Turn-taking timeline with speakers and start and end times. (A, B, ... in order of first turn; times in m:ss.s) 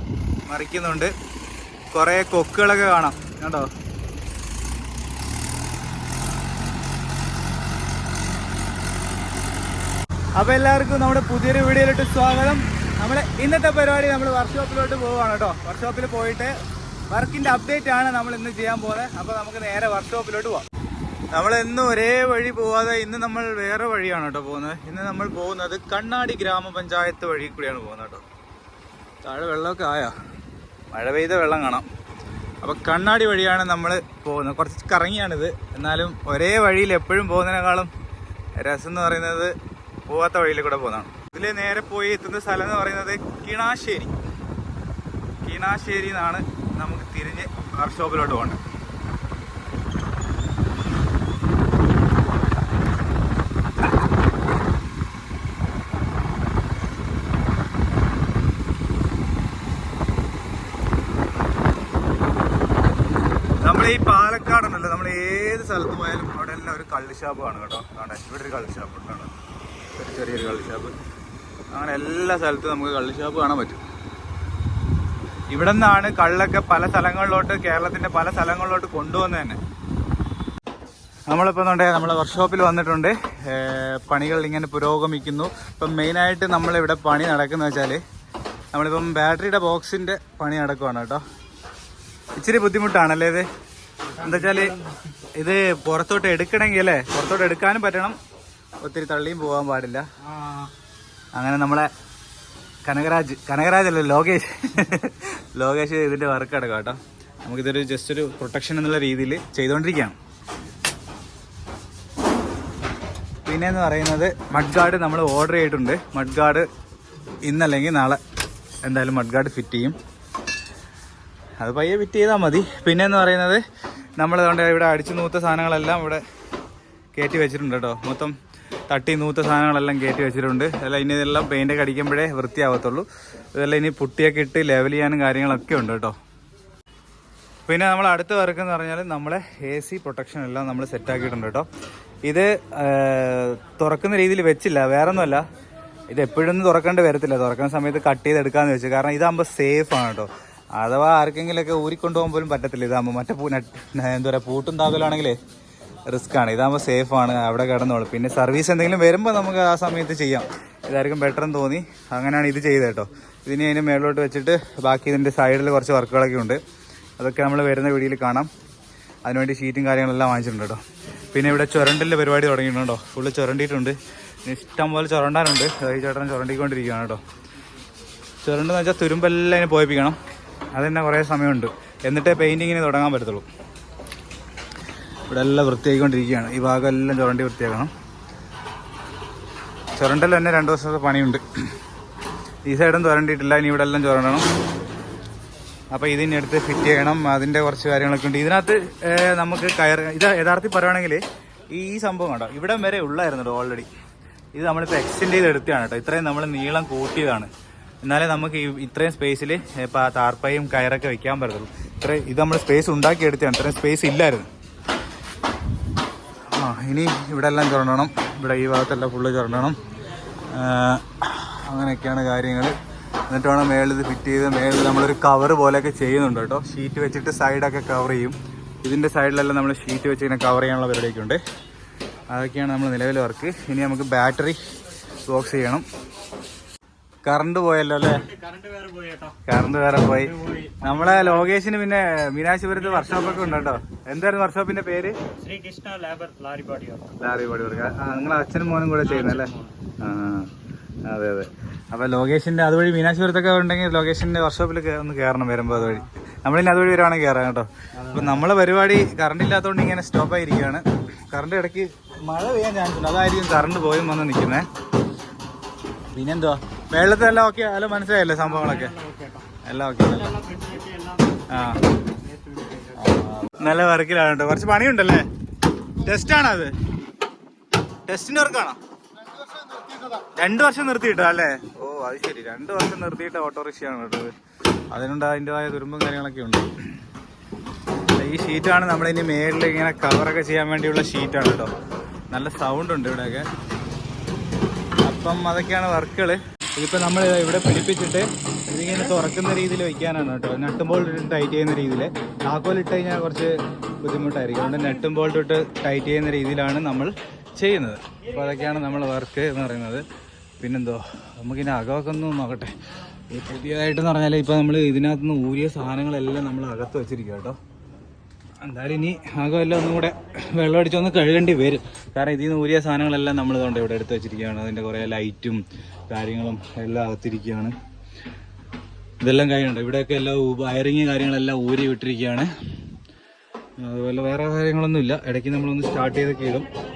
0:00.5-0:01.1 A
0:01.9-0:03.7 A
0:10.4-0:16.5 A
0:17.1-0:20.6 A
0:21.3-0:28.2 A
0:29.2-0:30.2 A
0:30.9-0:31.8 A
0:32.6-0:37.9 A
0:38.6-0:39.5 A
0:40.1-0:44.1 A
0:45.4-0:48.6 A
1:03.6-1:09.3 A
1:10.0-1:10.9 A
1:11.7-1:13.8 A
1:15.5-1:19.6 A
1:21.3-1:28.0 A
1:28.7-1:31.2 A
1:32.4-1:33.5 A
1:34.1-1:35.2 B
1:34.2-1:34.8 A
1:35.4-1:38.2 A
1:38.8-1:40.0 A
1:40.2-1:40.7 B
1:41.4-1:41.9 A
1:42.8-1:50.2 A
1:53.5-1:56.7 A
1:57.4-1:58.2 A
1:58.8-2:00.0 A
2:01.6-2:03.6 A
2:04.2-2:06.2 A
2:07.1-2:08.3 A
2:08.9-2:16.2 A
2:17.7-2:21.7 A
2:22.3-2:25.4 A
2:26.1-2:35.4 A
2:36.1-2:46.6 A
2:47.2-2:48.5 A
2:49.2-2:50.8 A
2:51.3-2:57.2 A
2:58.4-3:00.2 A
3:00.7-3:03.5 A
3:05.3-3:07.9 A
3:10.0-3:11.4 A
3:12.7-3:14.4 A
3:15.9-3:23.9 A
3:24.6-3:27.5 A
3:28.0-3:34.5 A
3:36.5-3:39.8 A
3:40.5-3:42.8 A
3:43.3-3:51.4 A
3:52.3-3:54.6 A
3:55.3-3:55.8 A
3:57.2-3:58.3 A
3:58.1-3:59.4 B
3:59.5-4:05.2 A
4:00.1-4:01.5 B
4:02.8-4:03.8 B
4:05.4-4:07.2 B
4:07.2-4:10.5 A
4:09.0-4:09.8 B
4:11.1-4:24.7 A
4:15.7-4:16.1 B
4:17.9-4:18.4 B
4:26.1-4:29.0 A
4:28.4-4:29.5 B
4:29.6-4:30.3 A
4:30.0-4:33.2 B
4:31.5-4:31.8 A
4:33.0-4:35.3 A
4:36.0-4:36.7 A
4:38.1-4:38.8 A
4:40.2-4:44.3 A
4:44.9-4:46.7 A
4:48.2-4:51.7 A
4:52.3-4:53.5 A
4:55.0-5:10.0 A
5:04.7-5:05.2 B
5:08.3-5:09.1 B
5:10.6-5:12.7 A
5:13.3-5:17.6 A
5:18.6-5:27.7 A
5:29.2-5:32.5 A
5:33.8-5:36.7 A